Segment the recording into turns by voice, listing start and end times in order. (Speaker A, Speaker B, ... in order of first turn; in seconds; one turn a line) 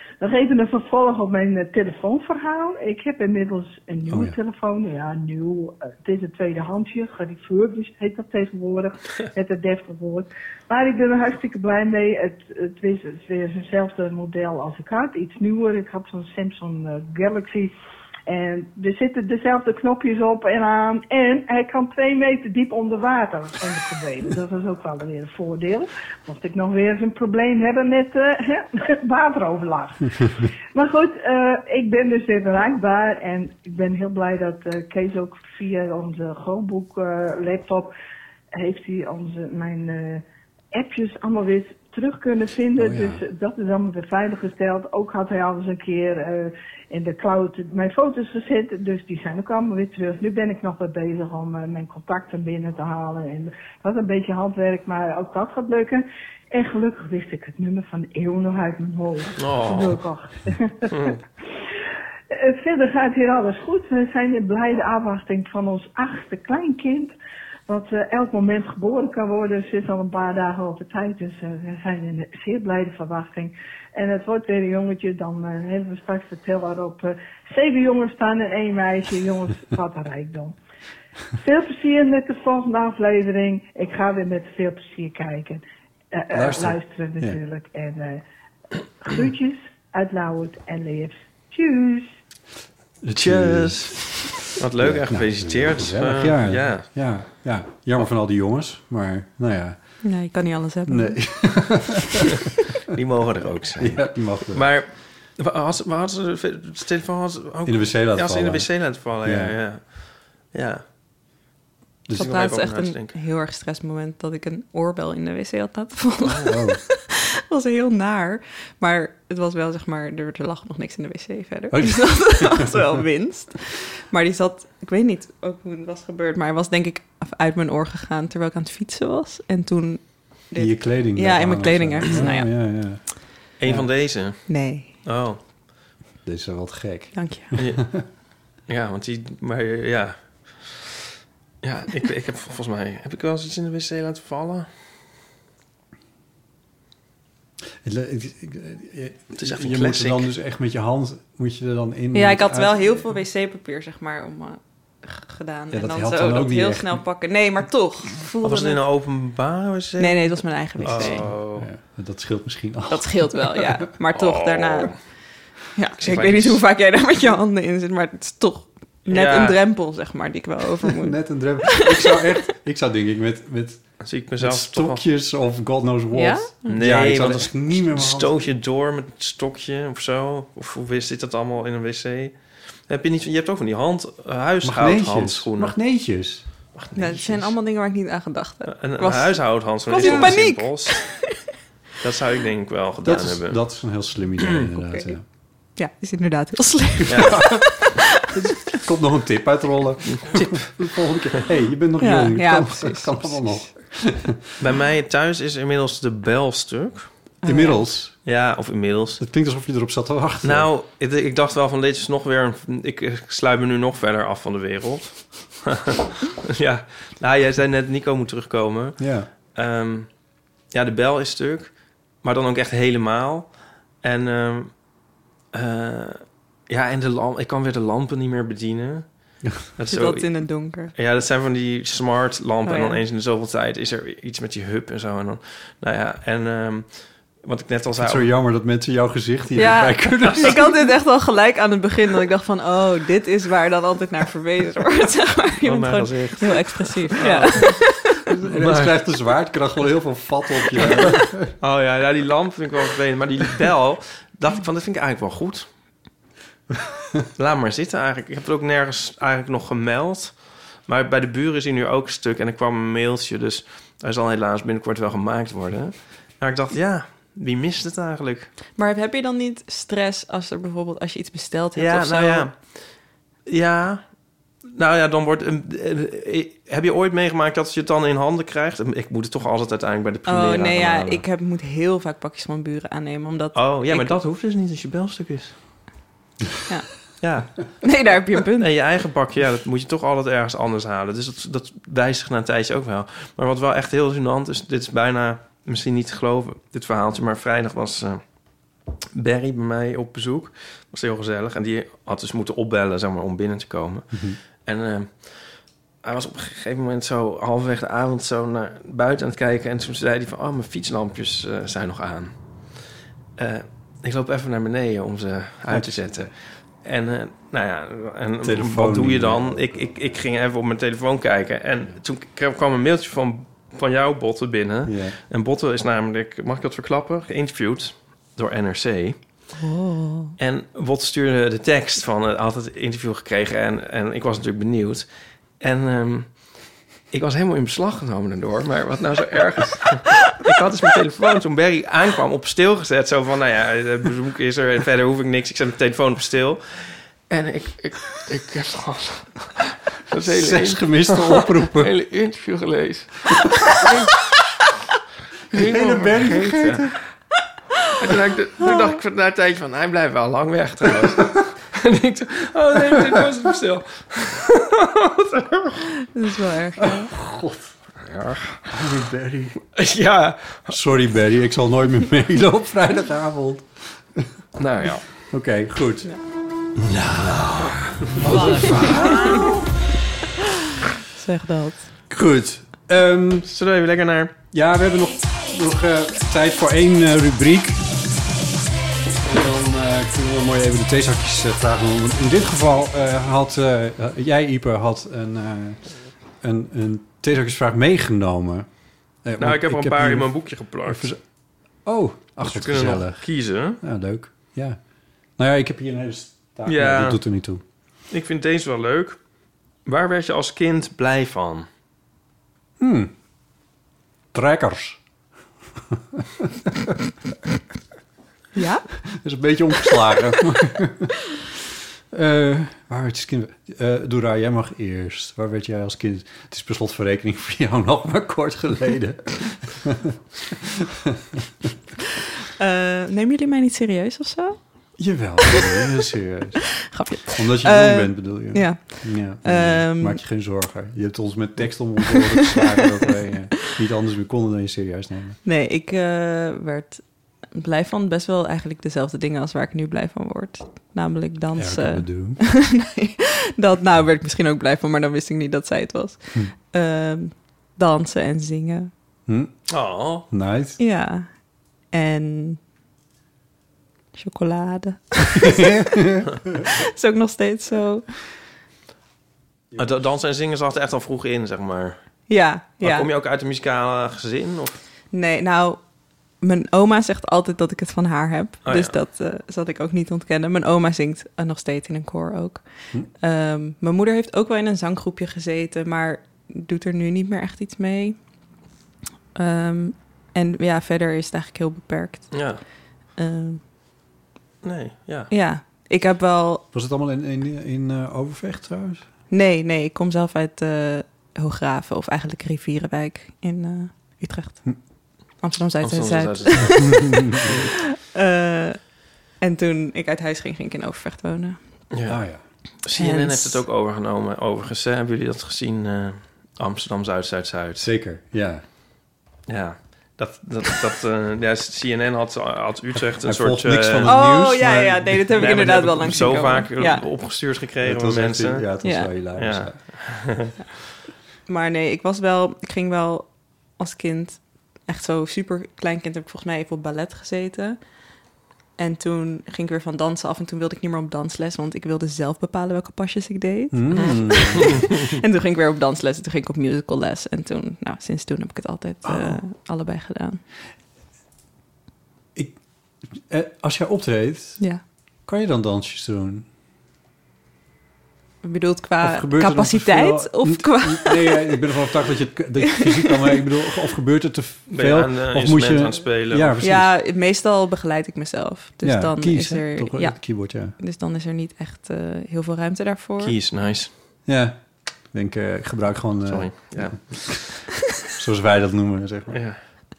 Speaker A: 0.2-17.7
Speaker B: 4.1-4.4
Speaker A: 18.3-37.9
Speaker A: 38.5-61.2
Speaker B: 42.8-43.2
Speaker C: 59.4-60.0
Speaker C: 60.9-61.2
Speaker A: 62.3-67.1
Speaker A: 67.7-80.6
Speaker A: 81.4-88.2
Speaker B: 86.3-87.4
Speaker A: 89.0-92.1
Speaker B: 93.0-100.1
Speaker C: 93.2-96.9
Speaker D: 100.0-101.5
Speaker B: 100.9-102.3
Speaker C: 102.9-110.8
Speaker B: 103.8-104.7
Speaker B: 107.7-109.6
Speaker C: 112.1-113.2
Speaker D: 112.2-132.5
Speaker C: 116.2-116.5
Speaker B: 116.5-116.8
Speaker B: 121.7-122.8
Speaker B: 130.6-133.9
Speaker C: 133.6-135.4
Speaker D: 134.5-134.9
Speaker B: 136.2-138.0
Speaker D: 137.1-137.5
Speaker C: 137.6-137.8
Speaker C: 138.7-140.9
Speaker C: 141.6-144.7
Speaker B: 147.8-153.1
Speaker C: 149.4-150.3
Speaker D: 152.1-158.8
Speaker B: 155.7-157.0
Speaker C: 158.4-161.7
Speaker D: 160.0-161.3
Speaker B: 160.8-163.6
Speaker D: 162.9-165.0
Speaker C: 164.1-165.0
Speaker D: 165.8-172.2
Speaker C: 166.0-166.6
Speaker C: 169.1-169.6
Speaker B: 170.8-178.4
Speaker C: 174.0-175.0
Speaker D: 176.1-176.7
Speaker C: 176.7-185.8
Speaker B: 184.6-186.5
Speaker C: 186.8-187.5
Speaker D: 186.9-191.3
Speaker C: 188.7-191.2
Speaker B: 190.0-190.3
Speaker C: 192.0-193.6
Speaker B: 193.0-195.2
Speaker D: 194.9-195.1
Speaker D: 195.7-198.0
Speaker C: 197.1-197.8
Speaker B: 197.2-197.7
Speaker B: 198.2-204.4
Speaker C: 200.1-200.8
Speaker D: 202.0-203.7
Speaker C: 204.6-207.1
Speaker D: 207.4-207.8
Speaker B: 207.4-208.2
Speaker C: 208.2-209.2
Speaker B: 209.2-210.7
Speaker C: 210.4-220.1
Speaker B: 219.0-219.3
Speaker C: 220.7-224.8
Speaker C: 225.5-229.1
Speaker C: 229.6-238.3
Speaker D: 229.9-230.9
Speaker D: 232.7-233.0
Speaker B: 238.0-240.6
Speaker D: 239.6-248.2
Speaker C: 245.6-249.0
Speaker B: 248.3-251.5
Speaker C: 250.7-255.7
Speaker C: 257.4-268.5
Speaker D: 268.8-272.5
Speaker C: 271.8-272.8
Speaker C: 273.5-274.0
Speaker C: 274.7-281.2
Speaker D: 280.3-284.2
Speaker C: 283.5-285.6
Speaker C: 287.2-287.9
Speaker D: 287.8-288.7
Speaker C: 288.6-298.2
Speaker C: 299.1-312.8
Speaker B: 304.1-304.4
Speaker C: 313.4-329.2
Speaker B: 315.7-316.3
Speaker B: 318.4-319.9
Speaker B: 324.9-325.2
Speaker D: 329.6-330.4
Speaker C: 330.4-335.1
Speaker C: 335.6-354.1
Speaker B: 350.3-351.9
Speaker C: 355.5-357.0
Speaker B: 355.5-357.0
Speaker C: 358.0-365.8
Speaker D: 366.1-367.1
Speaker B: 366.8-367.7
Speaker C: 368.0-368.6
Speaker B: 368.7-369.6
Speaker C: 369.8-370.8
Speaker B: 370.7-374.3
Speaker C: 374.6-375.1
Speaker B: 375.3-376.1
Speaker B: 376.9-379.4
Speaker C: 377.4-379.6
Speaker D: 378.3-379.5
Speaker D: 381.1-381.9
Speaker B: 382.1-383.5
Speaker C: 383.5-384.4
Speaker B: 384.5-388.0
Speaker B: 389.2-398.7
Speaker B: 399.2-401.2
Speaker C: 399.4-401.1
Speaker B: 401.8-404.8
Speaker C: 402.4-403.8
Speaker B: 405.4-407.6
Speaker C: 406.7-407.2
Speaker C: 408.1-409.2
Speaker C: 409.9-411.7
Speaker B: 412.8-413.1
Speaker B: 414.3-415.0
Speaker B: 415.9-416.9
Speaker D: 418.6-418.9
Speaker B: 419.1-421.2
Speaker B: 422.1-431.4
Speaker D: 432.6-434.6
Speaker B: 435.0-445.4
Speaker D: 436.9-440.2
Speaker D: 445.4-458.9
Speaker B: 451.6-452.4
Speaker B: 459.3-459.7
Speaker C: 459.7-460.3
Speaker B: 460.3-460.8
Speaker D: 460.8-462.6
Speaker D: 464.1-466.0
Speaker B: 465.4-466.3
Speaker D: 466.6-468.2
Speaker C: 469.8-472.0
Speaker D: 472.3-473.1
Speaker C: 472.8-474.8
Speaker D: 475.1-475.8
Speaker D: 476.4-482.6
Speaker C: 478.6-478.9
Speaker D: 483.2-488.2
Speaker D: 489.4-493.6
Speaker C: 492.3-492.6
Speaker C: 494.6-495.3
Speaker D: 495.3-496.6
Speaker B: 496.7-499.1
Speaker D: 499.3-507.4
Speaker C: 505.8-507.4
Speaker D: 508.1-511.6
Speaker C: 511.9-512.2
Speaker B: 512.1-512.4
Speaker C: 512.8-517.9
Speaker D: 513.0-513.6
Speaker B: 517.8-518.6
Speaker C: 519.5-524.1
Speaker B: 523.2-526.4
Speaker D: 524.1-527.0
Speaker C: 525.4-528.7
Speaker B: 527.8-530.3
Speaker D: 528.8-529.1
Speaker C: 529.4-530.5
Speaker D: 531.5-537.8
Speaker D: 538.8-550.4
Speaker B: 543.7-544.8
Speaker C: 543.9-544.9
Speaker B: 549.0-549.4
Speaker B: 552.4-554.6
Speaker B: 555.2-556.5
Speaker D: 558.4-561.6
Speaker B: 559.0-566.9
Speaker C: 564.7-566.6
Speaker D: 566.6-573.3
Speaker B: 568.8-570.8
Speaker C: 573.2-573.9
Speaker B: 574.3-577.4
Speaker C: 576.3-577.5
Speaker B: 578.0-579.5
Speaker C: 579.3-579.6